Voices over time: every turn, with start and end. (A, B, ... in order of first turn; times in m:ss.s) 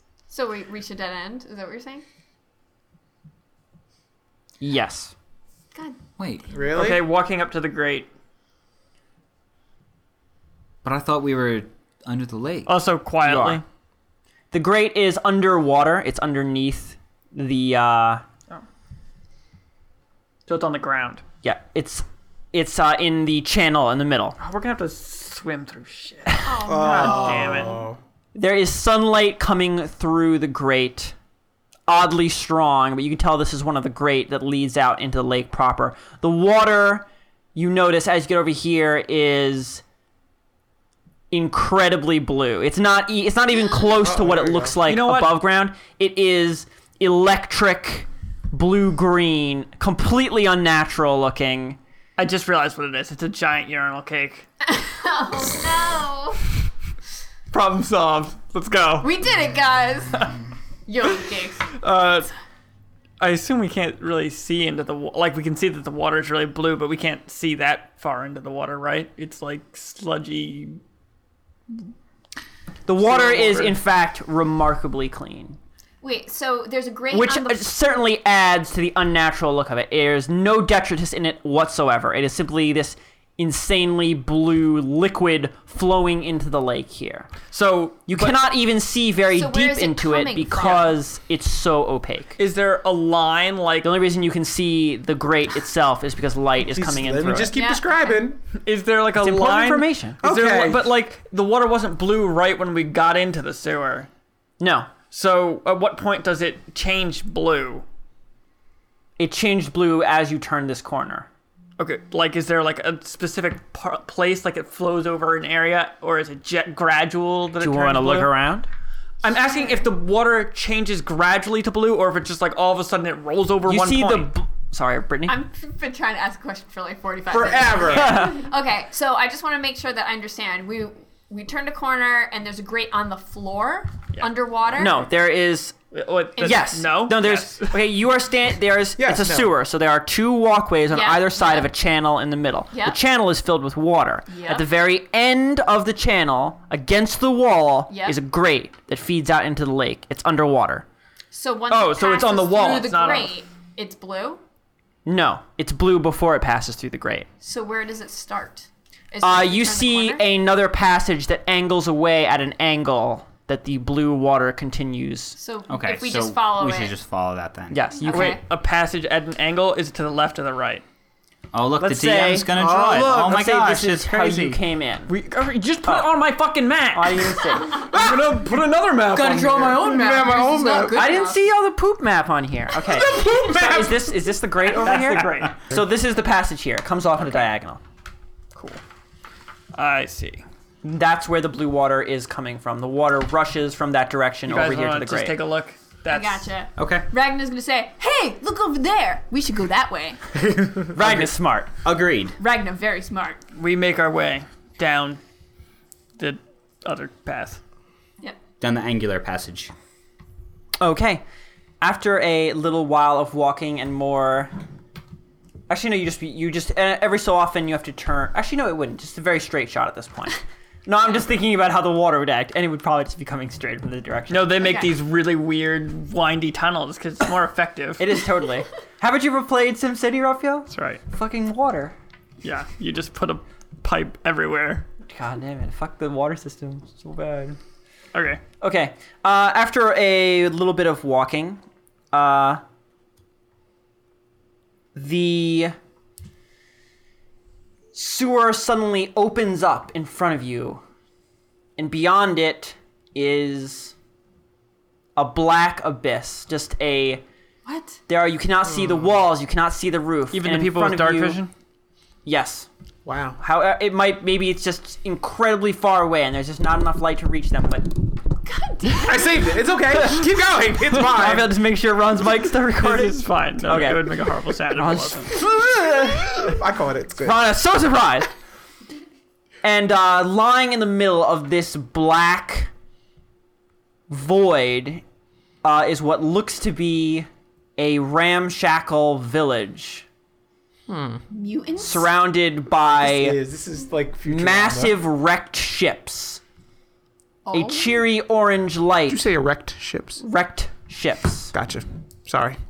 0:00.3-0:02.0 A
0:04.6-0:05.1 B
0:05.7-0:06.0 A
0:06.2-0:06.5 C
0:06.5-0:07.0 D
0:06.6-0:08.1 E
0:10.8-0:12.8 C
0:12.7-0:13.6 E
0:13.2-0:13.6 B
0:14.5-0:18.2 B
0:20.5-0:21.2 E
0:21.4-0:24.4 B
0:24.4-0:27.8 E
0:26.4-0:27.8 A
0:26.7-0:28.0 D
0:28.3-0:31.1 B
0:31.9-0:39.8 B
0:41.3-0:51.8 B
0:44.0-0:44.8 D
0:44.8-0:45.4 E
0:52.2-0:54.5 E
0:54.7-0:56.4 A
0:57.5-0:59.2 E
0:59.0-1:00.3 A
1:00.9-1:01.8 A
1:01.7-1:02.3 E
1:03.2-1:10.8 E
1:12.9-1:15.6 B
1:13.0-1:13.8 E
1:16.0-1:17.7 A
1:17.1-1:27.3 B
1:27.5-1:28.4 E
1:28.1-1:32.4 B
1:29.3-1:31.0 A
1:32.4-1:34.0 E
1:33.8-1:37.6 B
1:36.6-1:38.4 D
1:37.5-1:38.3 A
1:38.6-1:44.1 E
1:39.2-1:40.2 B
1:40.2-1:40.9 D
1:44.6-1:44.9 B
1:45.1-1:47.8 E
1:49.2-1:51.3 B
1:51.8-1:58.4 E
1:57.6-1:58.7 B
1:59.2-2:04.3 E
1:59.6-1:59.8 A
2:03.7-2:05.4 B
2:05.3-2:15.1 A
2:07.3-2:08.3 D
2:07.9-2:08.4 B
2:14.7-2:15.8 B
2:15.9-2:17.8 E
2:16.4-2:30.8 B
2:19.0-2:19.5 D
2:20.9-2:21.7 A
2:22.7-2:23.0 A
2:24.3-2:24.7 A
2:27.9-2:28.2 A
2:31.3-2:34.4 A
2:31.7-2:33.4 E
2:35.1-2:37.3 B
2:37.4-2:40.3 A
2:39.2-2:45.4 B
2:45.4-2:47.0 A
2:45.7-2:47.9 C
2:47.7-2:48.4 B
2:48.0-2:50.8 E
2:48.0-2:48.4 A
2:51.5-2:54.6 C
2:51.8-2:52.5 B
2:52.5-2:53.4 D
2:53.2-2:55.1 B
2:55.1-2:59.2 E
2:55.8-2:56.1 B
2:56.9-2:57.8 B
2:57.8-3:01.1 D
2:59.1-3:01.4 A
3:00.9-3:07.8 B
3:02.7-3:04.4 D
3:04.6-3:05.6 E
3:07.2-3:07.5 E
3:08.5-3:08.8 E
3:09.8-3:10.4 E
3:10.8-3:15.4 B
3:14.5-3:16.5 E
3:16.1-3:20.2 A
3:16.8-3:17.1 C
3:20.4-3:21.0 D
3:20.9-3:21.7 B
3:21.0-3:21.3 C
3:21.8-3:22.4 C
3:22.4-3:23.4 A
3:23.6-3:25.2 E
3:26.2-3:27.6 E
3:28.6-3:29.7 C
3:30.8-3:31.2 B
3:31.8-3:34.5 B
3:35.7-3:44.7 B
3:44.3-3:48.1 E
3:44.6-3:44.9 A
3:48.0-3:52.0 B
3:50.7-3:51.0 E
3:52.4-3:54.9 E
3:55.1-3:57.6 B
3:58.1-3:58.4 E
3:58.6-4:01.6 B
4:02.1-4:02.6 B
4:05.0-4:05.8 B
4:07.9-4:10.8 B
4:11.8-4:13.9 B
4:15.2-4:17.2 B
4:17.6-4:18.0 A
4:18.1-4:21.4 B
4:18.6-4:19.2 D
4:20.3-4:21.5 E
4:22.2-4:22.7 B
4:23.0-4:23.4 D
4:23.4-4:28.0 B
4:28.4-4:29.4 A
4:29.0-4:31.5 D
4:30.0-4:30.3 B
4:30.8-4:34.1 B
4:32.7-4:35.4 E
4:34.7-4:36.6 B
4:35.4-4:37.4 D
4:37.2-4:38.3 B
4:39.6-4:42.7 B
4:44.1-4:45.0 B
4:45.6-4:50.0 B
4:50.9-4:51.2 D
4:51.3-4:52.1 A
4:51.8-4:53.4 B
4:53.0-4:55.0 D
4:54.3-4:56.4 B
4:57.4-4:58.0 A
4:57.5-4:59.3 B
4:59.1-5:00.2 D
5:00.2-5:01.5 B
5:01.5-5:02.6 D